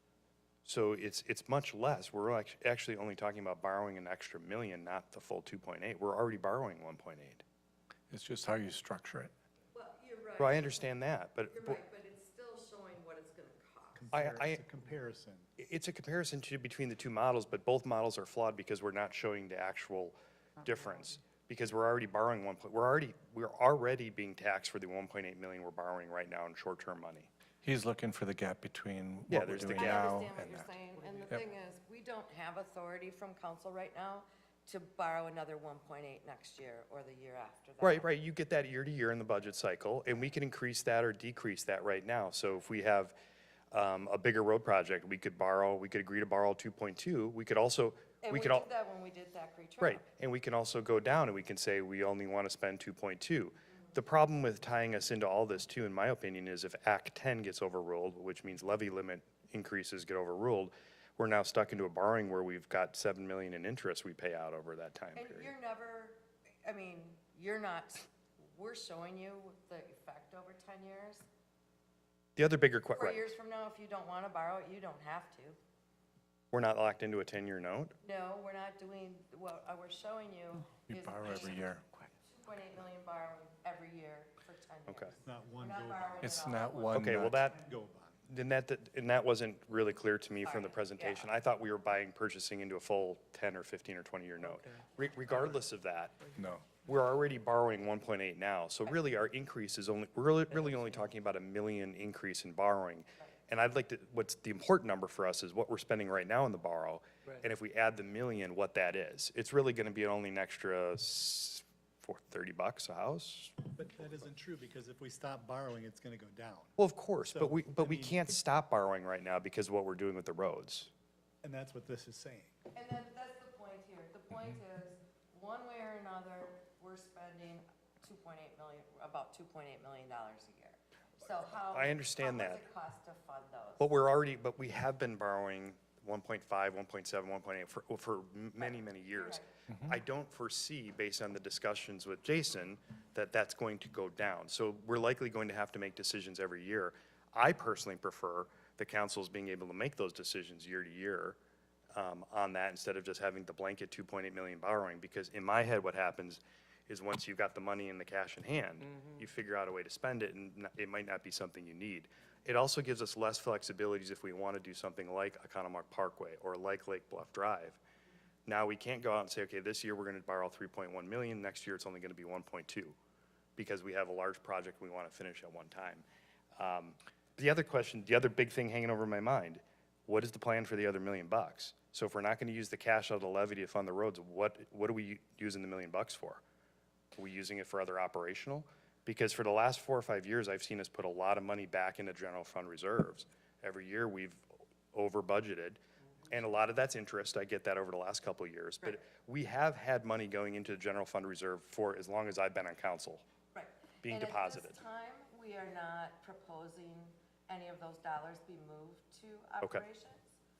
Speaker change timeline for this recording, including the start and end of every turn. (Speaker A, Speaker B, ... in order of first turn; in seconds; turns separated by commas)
Speaker A: 0.7-7.4, Speaker B: 8.1-9.3, Speaker C: 9.7-10.9, Speaker A: 10.4-11.8, Speaker C: 11.5-14.1, Speaker D: 13.9-15.5, Speaker A: 14.1-14.6, Speaker A: 15.6-27.3, Speaker B: 27.6-30.7, Speaker A: 29.3-30.1, Speaker C: 29.7-38.1, Speaker A: 37.8-43.1, Speaker A: 43.7-48.7, Speaker C: 48.2-50.0, Speaker A: 49.8-65.5, Speaker C: 65.2-71.2, Speaker A: 72.4-73.2, Speaker C: 72.9-75.6, Speaker A: 76.5-77.9, Speaker C: 78.0-81.6, Speaker B: 80.9-81.8, Speaker C: 82.2-87.1, Speaker A: 84.9-85.1, Speaker D: 85.2-86.2, Speaker B: 86.2-87.4, Speaker A: 86.9-87.6, Speaker D: 87.0-88.2, Speaker A: 88.3-96.2, Speaker C: 90.4-91.3, Speaker B: 96.4-96.7, Speaker A: 96.8-113.6, Speaker D: 113.7-118.2, Speaker A: 116.8-120.9, Speaker D: 121.4-122.5, Speaker C: 122.7-133.9, Speaker A: 131.7-132.7, Speaker A: 133.8-151.4, Speaker C: 138.6-139.5, Speaker B: 139.7-140.0, Speaker A: 151.9-167.8, Speaker A: 168.5-173.0, Speaker A: 173.6-176.1, Speaker A: 176.6-186.4, Speaker A: 187.2-203.2, Speaker C: 203.5-210.3, Speaker A: 204.0-204.8